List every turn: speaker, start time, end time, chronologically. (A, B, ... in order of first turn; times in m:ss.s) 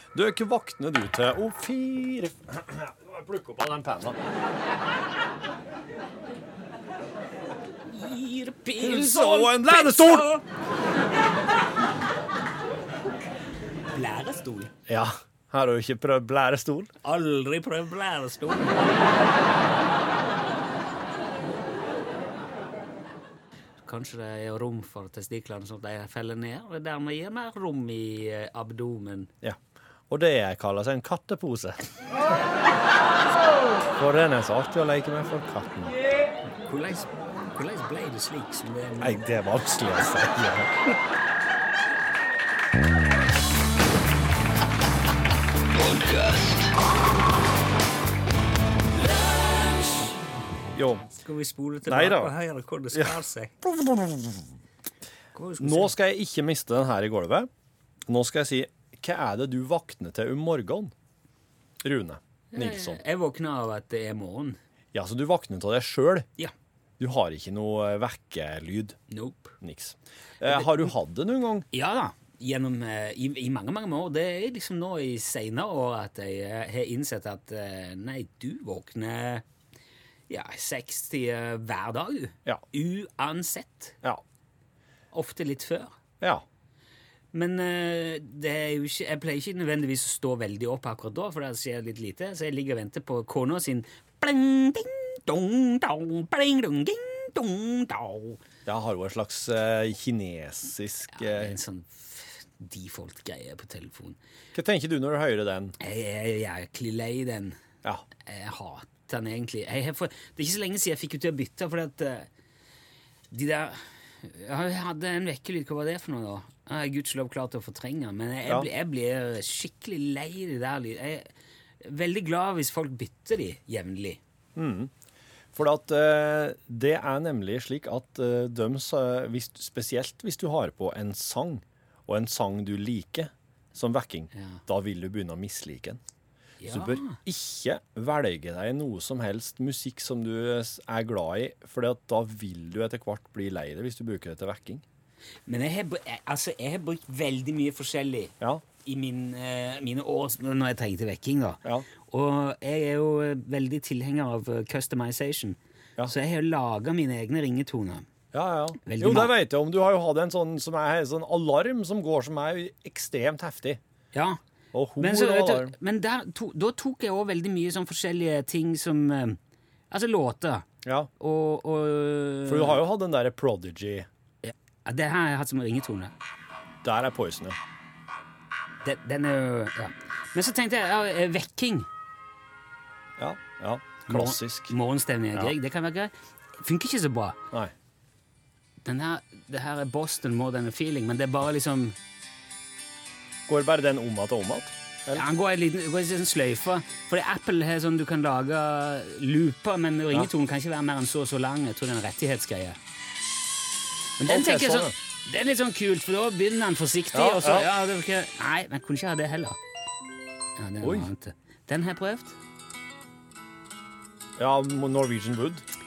0:00.1-0:04.2 A
0:07.9-0:10.4 B
0:08.8-0:10.3 A
0:13.9-0:14.7 B
0:14.9-0:16.9 A
0:17.0-0:19.1 B
0:23.8-0:29.3 B
0:29.4-0:32.3 A
0:33.9-0:36.0 A
0:36.6-0:39.2 B
0:39.0-0:40.9 A
0:50.7-0:51.1 A
0:51.1-0:53.5 B
0:51.9-0:52.3 A
0:52.9-0:54.5 A
0:55.3-0:55.9 B
0:55.6-0:57.5 A
0:58.1-1:00.9 A
1:01.8-1:03.0 A
1:02.5-1:04.6 B
1:04.9-1:06.3 A
1:07.0-1:09.0 A
1:09.1-1:09.5 B
1:09.6-1:11.7 A
1:10.4-1:10.9 B
1:11.7-1:19.4 B
1:20.3-1:24.0 B
1:25.1-1:25.9 B
1:27.3-1:38.4 B
1:38.6-1:41.6 A
1:41.1-1:44.2 B
1:44.5-1:45.8 A
1:45.8-1:47.6 B
1:48.2-1:52.3 B
1:53.3-2:01.3 B
2:01.8-2:04.2 B
2:04.6-2:04.9 A
2:05.5-2:16.0 A
2:14.3-2:14.6 B
2:16.6-2:17.2 B
2:16.7-2:24.8 A
2:25.5-2:28.3 B
2:28.8-2:38.1 B
2:38.3-2:43.8 A
2:38.8-2:39.3 B
2:44.1-2:44.4 B
2:44.7-2:45.7 A
2:45.0-2:49.4 B
2:49.9-2:50.7 B
2:50.8-2:51.1 A
2:51.2-2:52.8 B
2:52.4-2:54.1 A
2:54.4-2:56.1 B
2:56.8-2:57.6 A
2:58.8-3:01.9 B
3:03.2-3:04.7 A
3:04.0-3:07.4 B
3:08.8-3:12.0 B
3:13.5-3:15.2 A
3:15.1-3:22.8 B
3:24.2-3:29.6 B
3:24.2-3:24.9 A
3:27.1-3:27.7 A
3:30.6-3:32.4 B
3:30.8-3:31.1 A
3:34.4-3:35.6 A